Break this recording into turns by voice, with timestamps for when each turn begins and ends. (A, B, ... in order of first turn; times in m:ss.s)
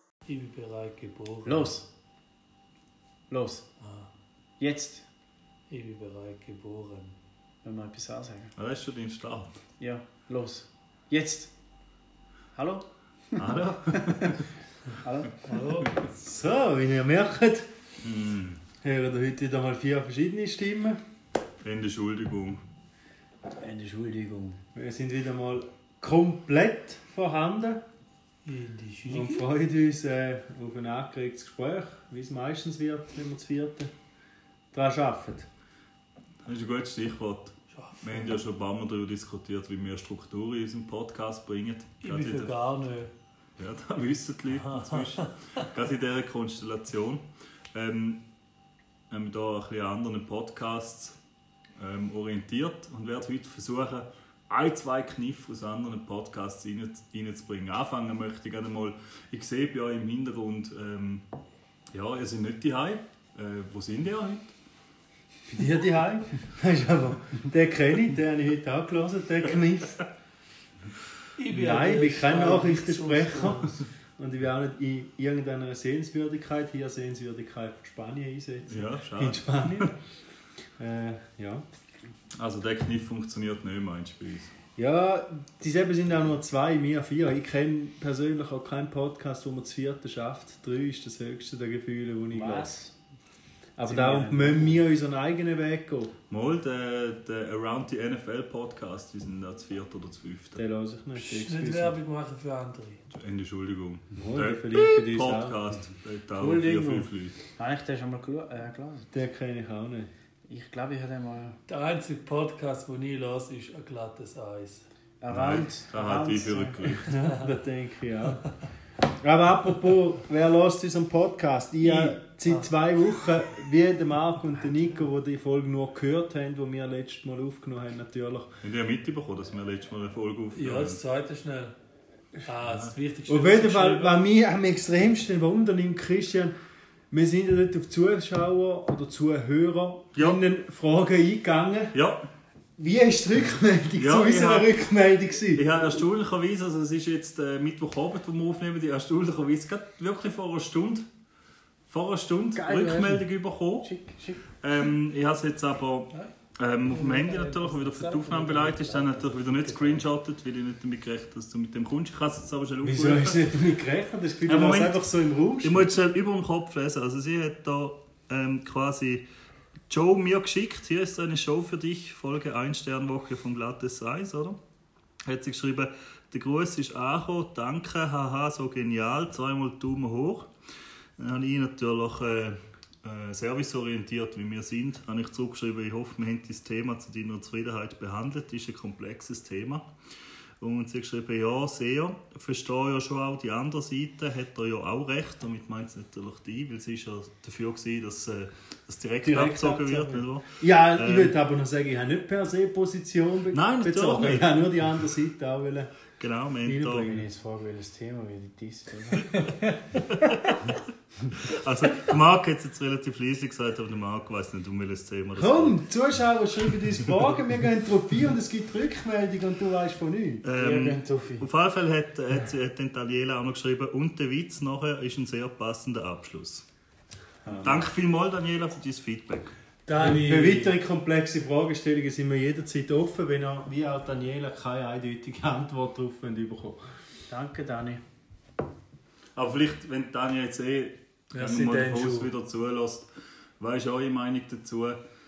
0:00.2-0:01.7 A
0:01.4-0:01.8 B
0:03.3-0:03.6 B
0:03.8-0:04.1 A
0:04.6-0:05.0 B
0:05.7-0:07.2 A
0:07.6-0:08.5 B
0:08.6-0:09.6 C
0:09.8-0:11.5 B
0:12.5-0:14.3 B
0:13.4-0:14.4 C
0:15.0-0:15.4 B
0:15.4-0:16.0 A
0:16.1-0:17.7 D
0:18.0-0:18.6 C
0:18.8-0:21.0 D
0:21.6-0:22.6 C
0:23.6-0:24.6 B
0:24.7-0:27.8 D
0:28.4-0:29.4 A
0:29.1-0:33.9 D
0:34.7-0:35.5 D
0:36.4-0:42.5 C
0:37.7-0:38.3 A
0:42.0-0:43.1 A
0:43.6-0:47.2 C
0:44.6-0:45.3 A
0:47.7-0:48.2 C
0:49.1-0:51.2 C
0:51.8-1:01.2 C
1:01.9-1:04.5 C
1:05.5-1:10.0 D
1:11.4-1:13.8 A
1:11.5-1:19.9 D
1:18.7-1:19.9 C
1:20.8-1:21.6 D
1:22.4-1:24.5 C
1:24.8-1:32.7 D
1:32.3-1:32.9 B
1:33.8-1:36.1 D
1:33.8-1:34.8 B
1:36.3-1:40.6 C
1:40.6-1:42.0 D
1:41.1-1:43.0 A
1:43.1-1:47.4 C
1:44.1-1:45.6 D
1:46.4-1:49.1 B
1:49.1-1:50.1 D
1:50.4-1:51.6 B
1:51.7-1:54.8 A
1:55.2-1:56.8 B
1:55.3-1:57.1 C
1:56.9-1:58.4 D
1:59.2-2:08.6 D
2:01.8-2:02.6 A
2:08.6-2:11.0 C
2:10.5-2:11.7 A
2:12.4-2:14.2 A
2:12.7-2:12.9 C
2:13.3-2:16.5 D
2:17.1-2:21.9 D
2:20.1-2:20.4 C
2:21.9-2:22.2 C
2:22.8-2:25.7 D
2:24.0-2:24.7 C
2:25.5-2:31.0 C
2:31.9-2:33.9 C
2:32.5-2:33.3 B
2:33.8-2:34.4 B
2:34.6-2:43.4 C
2:36.8-2:40.0 A
2:42.8-2:45.9 D
2:44.4-2:45.0 C
2:45.6-2:49.2 C
2:49.9-2:54.6 C
2:55.2-3:00.5 C
3:01.2-3:09.8 C
3:10.6-3:21.3 C
3:19.2-3:25.9 D
3:23.5-3:24.6 C
3:26.2-3:27.0 C
3:26.6-3:27.2 D
3:27.0-3:29.8 B
3:30.1-3:30.8 C
3:31.4-3:35.8 C
3:35.4-3:40.4 D
3:40.4-3:46.6 C
3:40.5-3:41.4 B
3:47.4-3:47.8 D
3:47.6-3:49.5 C
3:49.8-3:50.8 A
3:50.0-3:56.8 D
3:57.3-3:58.0 B
3:59.4-4:03.1 C
4:01.3-4:02.3 A
4:03.6-4:05.0 C